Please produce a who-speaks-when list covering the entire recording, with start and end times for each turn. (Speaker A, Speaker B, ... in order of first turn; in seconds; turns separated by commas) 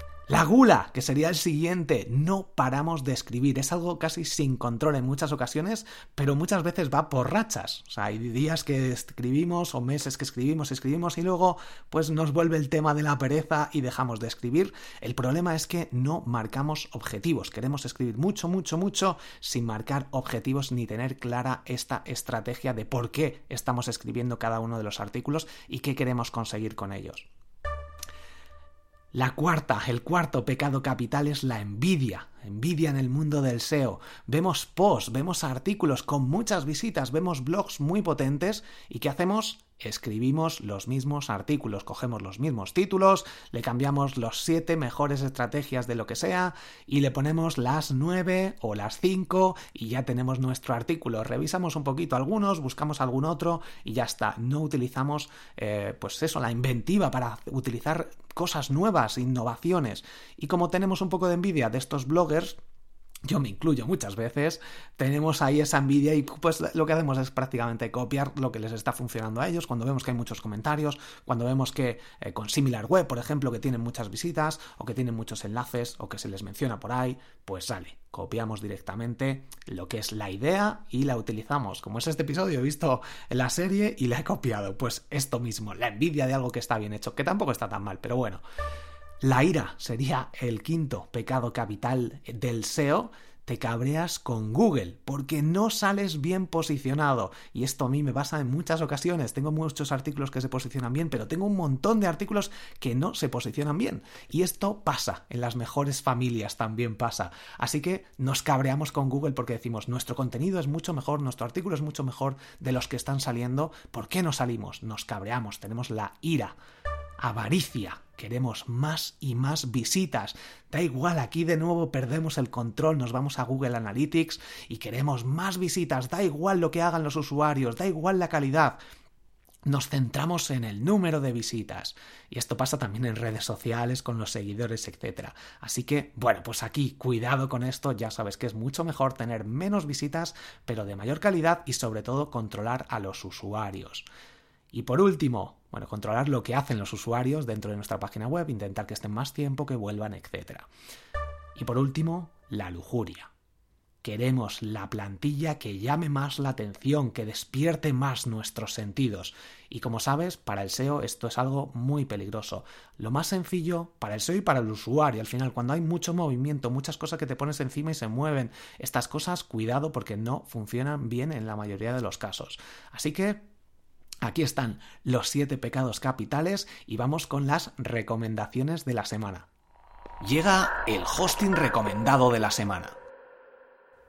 Speaker A: 0.3-27.3, Speaker A: 29.1-62.6, Speaker A: 63.2-88.4, Speaker A: 89.2-116.5, Speaker A: 117.2-128.8, Speaker A: 129.7-144.1, Speaker A: 144.7-150.7, Speaker A: 151.5-153.3, Speaker A: 154.0-173.4, Speaker A: 174.2-179.5, Speaker A: 180.2-183.0